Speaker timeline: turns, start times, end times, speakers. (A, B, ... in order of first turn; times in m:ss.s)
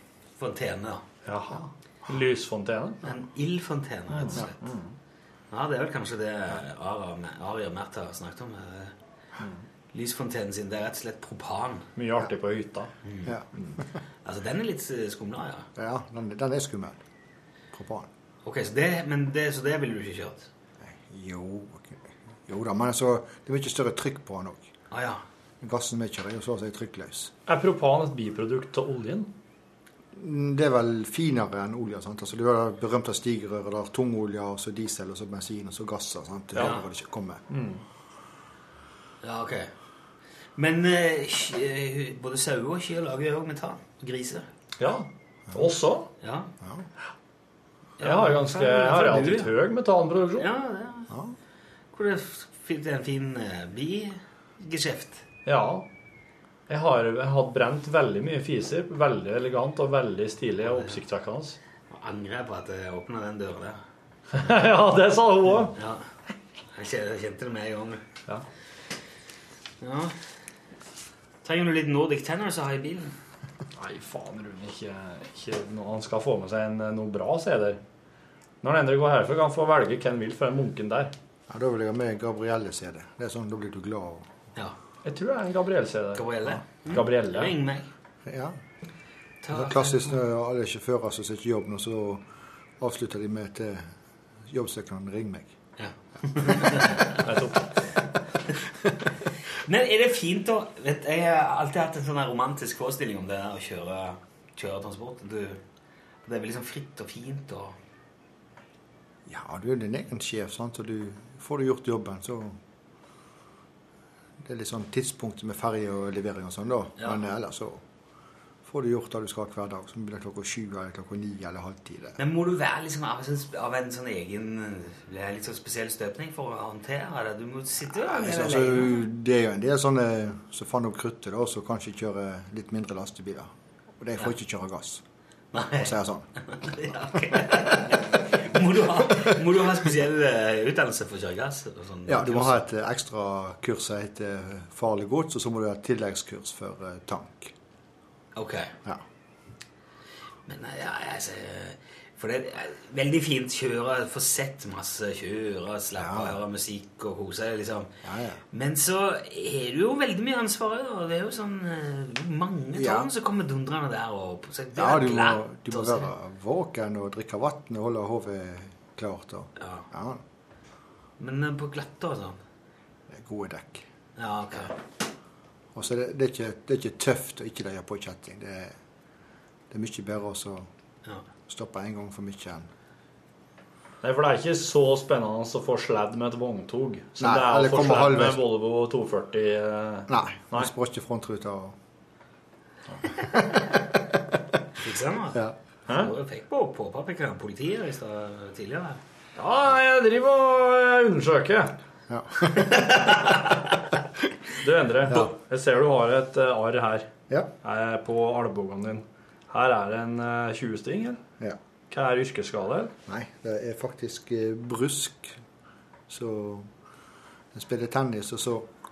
0:00.4-0:01.0 A
0:01.2-0:03.0 B
0:03.0-0:04.7 A
0:04.1-0:04.9 B
0:05.5-0:09.0 A
0:09.9-0:11.9 A
0:12.0-0:12.9 B
0:13.0-0:13.3 A
0:13.3-0:13.8 C
0:14.2-0:15.7 A
0:15.8-0:17.0 C
0:17.7-0:18.1 C
0:18.4-0:20.5 A
0:20.8-0:24.7 C
0:24.9-0:25.2 A
0:25.6-0:27.3 C
0:27.5-0:29.3 B
0:30.1-0:37.4 C
0:36.6-0:36.8 A
0:37.5-0:37.8 B
0:39.2-0:39.7 A
0:40.6-0:44.5 A
0:44.8-0:46.1 B
0:46.2-0:46.5 A
0:48.0-0:49.5 A
0:48.0-0:50.5 B
0:50.4-0:51.1 A
0:51.1-0:51.4 C
0:51.9-0:55.2 A
0:55.5-0:55.9 B
0:56.7-1:01.6 B
1:00.7-1:01.0 A
1:01.9-1:03.8 A
1:04.3-1:05.8 B
1:05.8-1:06.0 A
1:06.7-1:08.0 A
1:09.8-1:10.1 A
1:11.4-1:13.2 A
1:13.8-1:17.8 B
1:18.6-1:21.1 B
1:21.5-1:24.3 C
1:25.0-1:26.3 B
1:26.2-1:27.9 A
1:26.9-1:27.6 B
1:28.3-1:28.6 C
1:29.4-1:30.2 A
1:29.5-1:32.2 C
1:32.8-1:33.9 C
1:34.5-1:35.5 C
1:35.8-1:37.2 A
1:37.2-1:37.7 B
1:39.6-1:45.6 A
1:46.3-1:47.8 A
1:49.3-1:52.6 C
1:54.4-1:57.8 C
1:57.0-1:57.3 A
1:58.6-2:02.2 C
2:02.2-2:09.0 A
2:08.1-2:15.0 C
2:15.5-2:22.6 A
2:15.8-2:16.3 C
2:22.1-2:27.5 C
2:28.4-2:28.7 A
2:30.5-2:37.9 A
2:36.0-2:36.4 C
2:38.0-2:38.4 C
2:38.5-2:46.1 A
2:42.8-2:43.1 C
2:44.8-2:50.2 C
2:49.6-2:49.9 A
2:51.2-2:52.4 A
2:53.1-2:53.8 C
2:54.2-2:54.7 A
2:55.8-2:58.8 C
2:59.7-3:00.7 C
3:01.5-3:02.7 C
3:04.0-3:10.7 B
3:07.2-3:08.5 C
3:10.1-3:11.8 C
3:13.1-3:14.2 C
3:14.8-3:19.0 A
3:15.9-3:16.1 B
3:19.4-3:21.8 B
3:22.1-3:23.1 C
3:23.0-3:23.4 A
3:24.6-3:27.1 B
3:27.6-3:31.2 B
3:31.9-3:32.9 B
3:33.1-3:35.4 C
3:36.1-3:36.7 C
3:37.5-3:38.7 C